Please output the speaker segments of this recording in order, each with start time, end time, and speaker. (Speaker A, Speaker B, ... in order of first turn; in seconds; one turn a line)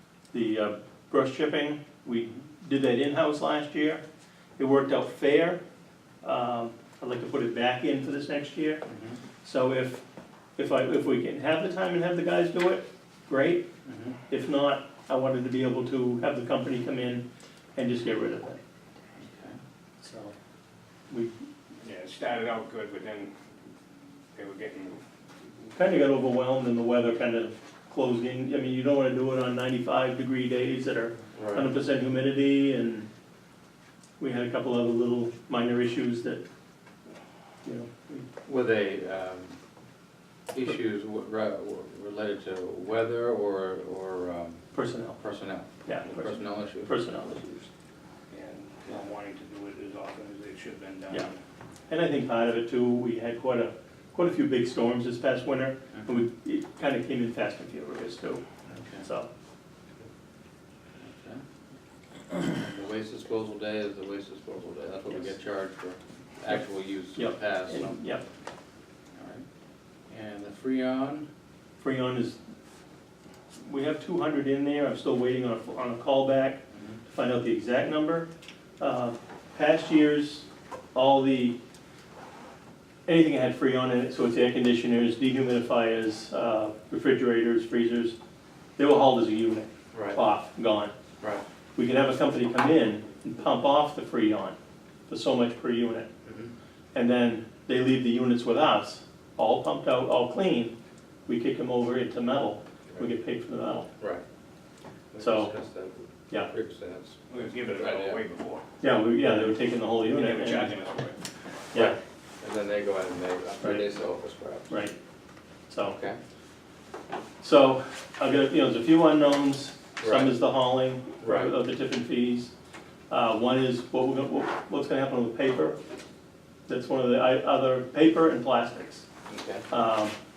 Speaker A: 0.3-4.0
Speaker A: 4.6-5.6
Speaker A: 6.2-8.8
Speaker B: 8.9-9.2
Speaker A: 9.4-10.0
Speaker A: 10.6-13.7
Speaker B: 13.8-14.2
Speaker A: 14.3-17.2
Speaker A: 17.8-18.6
Speaker B: 19.2-19.6
Speaker A: 20.0-20.3
Speaker C: 21.8-23.3
Speaker C: 24.4-25.0
Speaker A: 25.7-33.1
Speaker B: 31.3-31.7
Speaker A: 34.2-36.4
Speaker A: 37.6-38.3
Speaker B: 38.5-39.6
Speaker B: 40.5-44.6
Speaker A: 44.7-45.2
Speaker B: 45.2-47.0
Speaker A: 45.8-47.7
Speaker C: 48.3-51.4
Speaker A: 51.9-58.4
Speaker B: 58.7-59.1
Speaker A: 59.0-59.3
Speaker B: 61.0-61.4
Speaker B: 62.4-68.0
Speaker A: 67.1-68.2
Speaker B: 69.2-69.5
Speaker B: 70.1-71.3
Speaker A: 71.8-72.4
Speaker A: 73.5-78.3
Speaker B: 76.7-77.0
Speaker A: 78.8-81.6
Speaker A: 83.1-88.2
Speaker A: 88.8-90.9
Speaker B: 89.9-90.2
Speaker A: 91.8-94.6
Speaker A: 95.1-96.1
Speaker B: 96.2-96.5
Speaker A: 96.9-100.8
Speaker A: 101.3-103.9
Speaker B: 102.9-103.2
Speaker B: 104.0-104.2
Speaker B: 105.1-108.2
Speaker A: 105.2-105.6
Speaker C: 107.3-108.7
Speaker A: 108.8-110.8
Speaker B: 109.2-109.5
Speaker C: 110.1-111.2
Speaker B: 111.7-114.8
Speaker A: 113.6-113.9
Speaker A: 114.7-115.0
Speaker A: 115.7-116.0
Speaker B: 115.8-116.2
Speaker A: 117.4-122.5
Speaker B: 120.0-120.4
Speaker B: 121.2-121.6
Speaker A: 123.1-125.8
Speaker A: 126.7-129.1
Speaker B: 129.3-129.7
Speaker A: 129.7-130.2